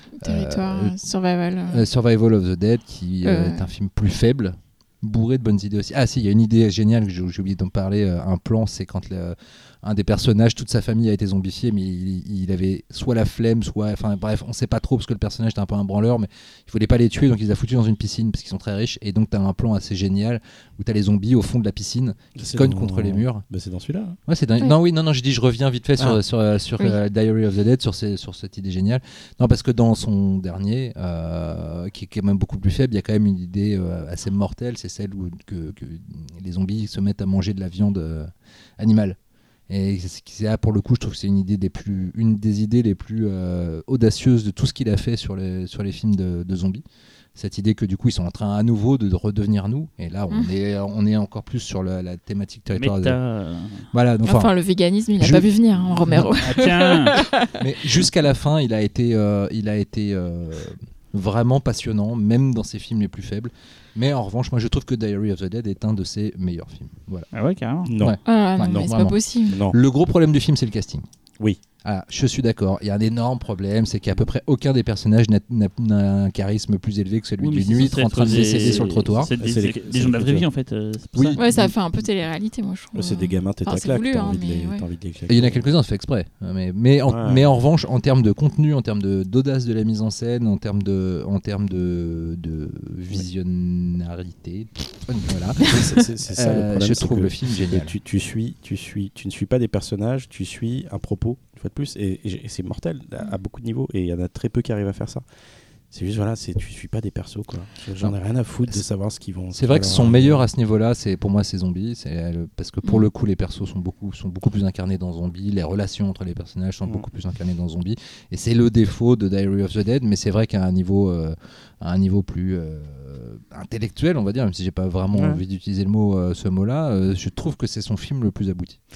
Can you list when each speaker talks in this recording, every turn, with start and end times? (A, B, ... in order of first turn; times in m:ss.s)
0:00.2-0:01.8 A
0:00.2-0:01.0 B
0:01.7-0:23.5 B
0:03.2-0:03.7 A
0:22.4-0:24.2 C
0:24.3-0:39.2 B
0:39.7-0:46.8 B
0:47.4-0:53.2 B
0:52.8-0:53.9 D
0:53.9-0:54.5 B
0:54.2-0:57.5 A
0:55.2-0:55.4 B
0:56.0-0:56.3 B
0:56.4-0:57.2 D
0:57.6-1:07.3 B
1:07.3-1:07.9 D
1:07.9-1:08.2 C
1:08.0-1:11.1 B
1:08.2-1:09.6 A
1:09.5-1:09.8 C
1:11.8-1:19.3 B
1:17.4-1:21.4 D
1:18.2-1:20.5 C
1:21.2-1:21.8 B
1:21.4-1:24.9 A
1:22.9-1:25.6 C
1:25.3-1:35.7 B
1:27.1-1:27.5 C
1:35.6-1:45.2 C
1:36.3-1:38.0 B
1:45.9-1:50.4 C
1:49.5-2:08.8 B
1:52.8-1:53.1 A
2:05.1-2:05.4 C